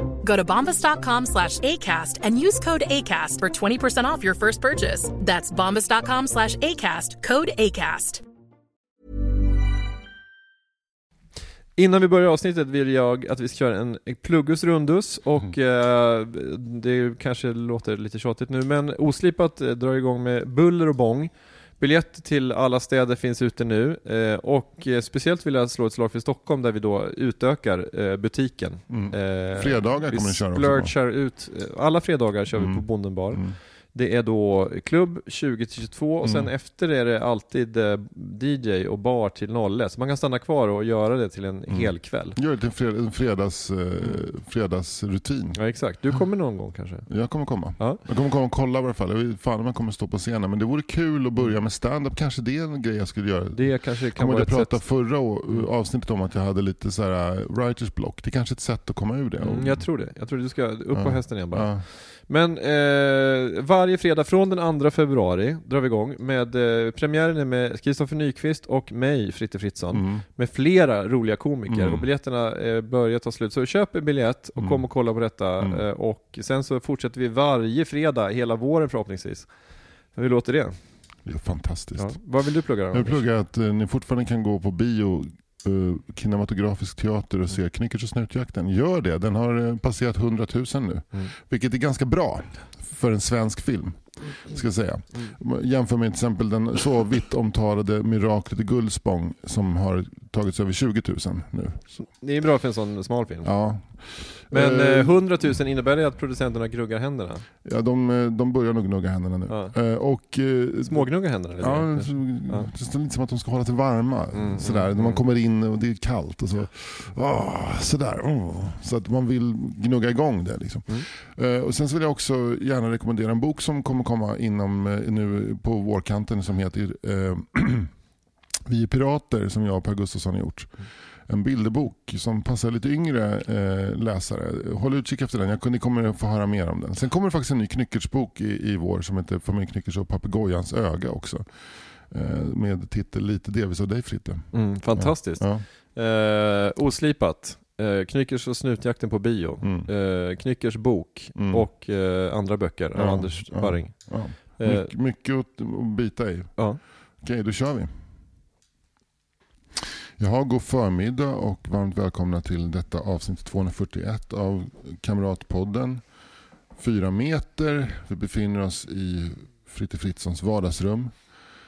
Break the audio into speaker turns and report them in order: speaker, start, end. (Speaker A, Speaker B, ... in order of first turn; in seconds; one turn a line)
Speaker A: 0.2-8.2
Speaker B: 11.8-42.4
Speaker C: 28.9-30.9
Speaker C: 32.5-33.6
Speaker C: 36.2-36.5
Speaker C: 41.7-45.6
Speaker B: 45.5-48.0
Speaker C: 47.1-59.9
Speaker B: 53.5-54.9
Speaker B: 59.4-79.5
Speaker C: 60.9-61.8
Speaker C: 69.9-70.2
Speaker C: 71.7-72.0
Speaker C: 74.6-74.8
Speaker B: 80.1-80.8
Speaker C: 81.2-82.2
Speaker B: 82.0-83.2
Speaker C: 82.9-101.8
Speaker B: 101.9-103.7
Speaker C: 103.4-105.2
Speaker B: 104.5-107.5
Speaker C: 107.6-127.9
Speaker B: 109.5-109.8
Speaker B: 110.8-112.7
Speaker B: 114.3-115.2
Speaker C: 128.7-145.7
Speaker B: 144.5-154.9
Speaker C: 149.6-149.9
Speaker C: 151.3-151.6
Speaker C: 152.9-156.6
Speaker C: 157.2-157.9
Speaker C: 160.2-166.0
Speaker C: 166.7-171.2